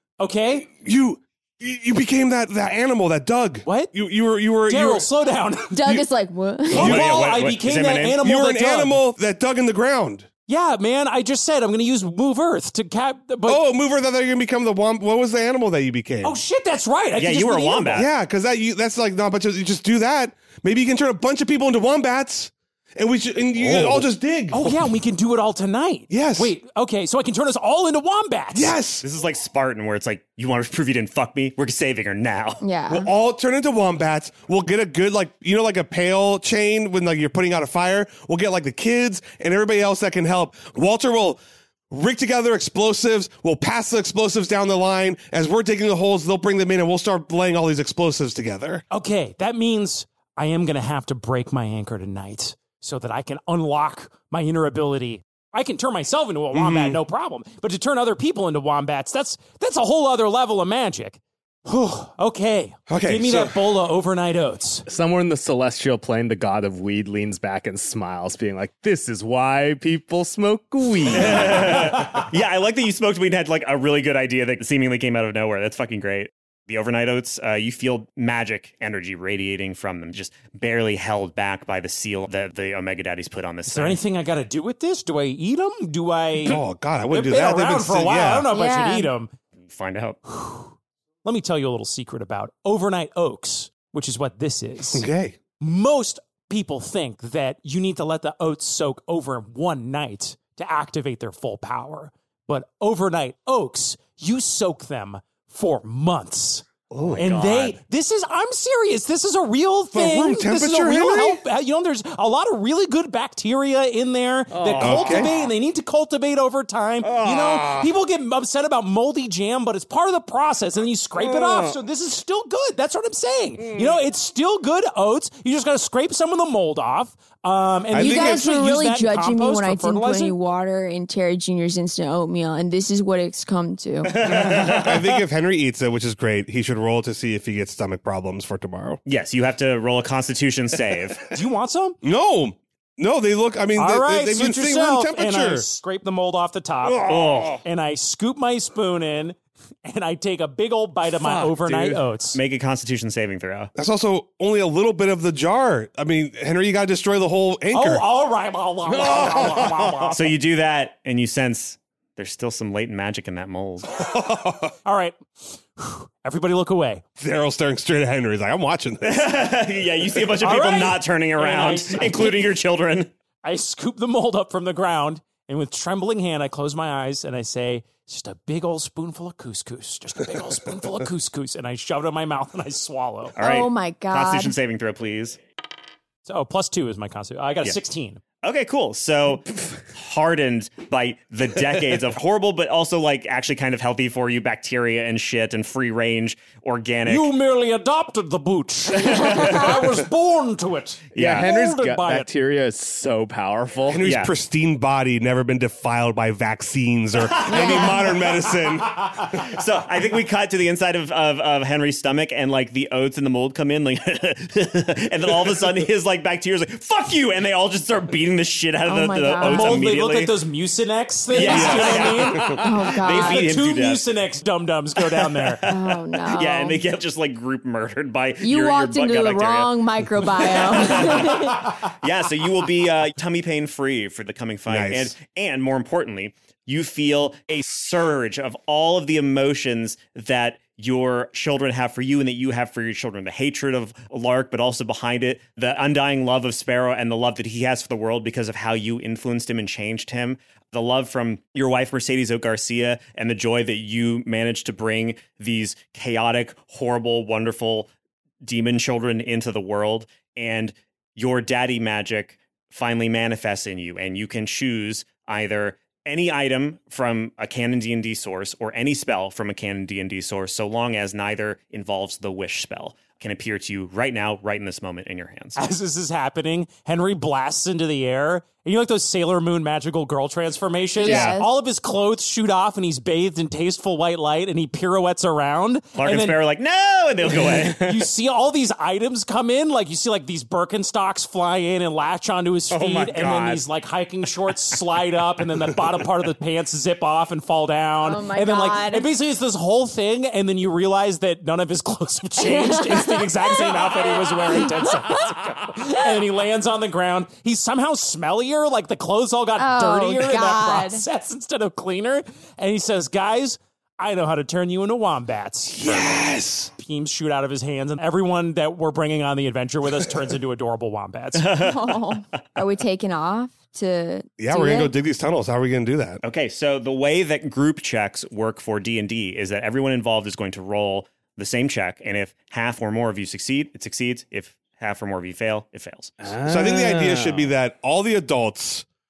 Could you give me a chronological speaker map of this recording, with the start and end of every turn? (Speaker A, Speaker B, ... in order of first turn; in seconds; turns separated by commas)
Speaker A: 0.2-0.7, Speaker B: 0.7-5.1, Speaker A: 3.7-3.9, Speaker A: 4.7-6.0, Speaker C: 5.7-6.9, Speaker A: 6.7-9.0, Speaker B: 6.8-7.3, Speaker D: 6.8-8.2, Speaker B: 8.2-10.3, Speaker A: 10.5-13.6, Speaker B: 13.5-16.4, Speaker A: 16.2-18.1, Speaker D: 17.2-18.1, Speaker B: 17.9-24.9, Speaker A: 24.5-28.8, Speaker B: 26.1-26.5, Speaker B: 28.5-29.0, Speaker D: 29.0-32.6, Speaker C: 32.6-33.1, Speaker B: 32.9-41.4, Speaker B: 41.9-48.8, Speaker A: 48.9-64.9, Speaker B: 56.5-57.0, Speaker B: 62.9-63.6, Speaker E: 64.9-71.8, Speaker D: 71.1-84.0, Speaker A: 83.7-89.3, Speaker B: 86.4-88.5, Speaker C: 88.5-89.1, Speaker D: 89.7-90.2, Speaker A: 90.2-90.7, Speaker A: 91.2-95.1, Speaker B: 94.9-95.4, Speaker A: 95.6-130.3, Speaker D: 106.9-107.8, Speaker B: 109.9-111.4, Speaker E: 114.5-115.3, Speaker B: 114.8-115.3, Speaker E: 117.0-117.9, Speaker E: 121.2-121.8, Speaker E: 123.6-124.0, Speaker B: 127.9-128.5, Speaker C: 128.0-134.1, Speaker D: 134.0-135.2, Speaker B: 134.2-139.0, Speaker D: 139.1-141.3, Speaker A: 141.3-142.0, Speaker B: 142.0-145.7, Speaker A: 143.8-147.1, Speaker D: 147.0-147.6, Speaker A: 147.6-152.4, Speaker E: 151.1-152.1, Speaker D: 152.3-153.7, Speaker B: 153.8-158.0, Speaker A: 157.7-160.4, Speaker D: 160.1-163.9, Speaker B: 164.0-164.7, Speaker A: 164.9-165.2, Speaker A: 165.8-167.0, Speaker B: 167.2-169.5, Speaker D: 169.1-173.1, Speaker A: 170.4-172.5, Speaker A: 173.4-183.4, Speaker D: 183.4-185.4, Speaker C: 183.4-184.6, Speaker A: 186.2-188.2, Speaker D: 188.4-197.3, Speaker A: 197.1-202.3, Speaker D: 199.1-199.7, Speaker E: 201.1-204.0, Speaker D: 201.2-201.5, Speaker B: 203.9-209.2, Speaker D: 204.0-204.3, Speaker D: 207.2-208.0, Speaker C: 207.5-207.9, Speaker D: 209.3-220.3, Speaker C: 218.9-219.8, Speaker A: 219.4-225.7, Speaker D: 221.3-224.1, Speaker B: 221.4-222.6, Speaker C: 222.6-223.4, Speaker D: 225.0-229.7, Speaker C: 225.7-226.8, Speaker C: 228.4-231.7, Speaker D: 230.4-257.9, Speaker B: 234.7-235.1, Speaker D: 258.4-275.6, Speaker A: 275.6-286.4, Speaker C: 281.0-281.5, Speaker B: 281.0-281.4, Speaker D: 286.0-287.8, Speaker A: 287.7-316.3, Speaker E: 292.7-293.6, Speaker C: 298.0-299.1, Speaker C: 302.4-305.2, Speaker C: 309.6-311.1, Speaker B: 315.8-316.7, Speaker A: 316.8-321.6, Speaker D: 321.4-321.9, Speaker C: 321.6-324.9, Speaker B: 324.4-326.2, Speaker D: 326.2-336.1, Speaker E: 336.2-337.5, Speaker B: 336.4-338.9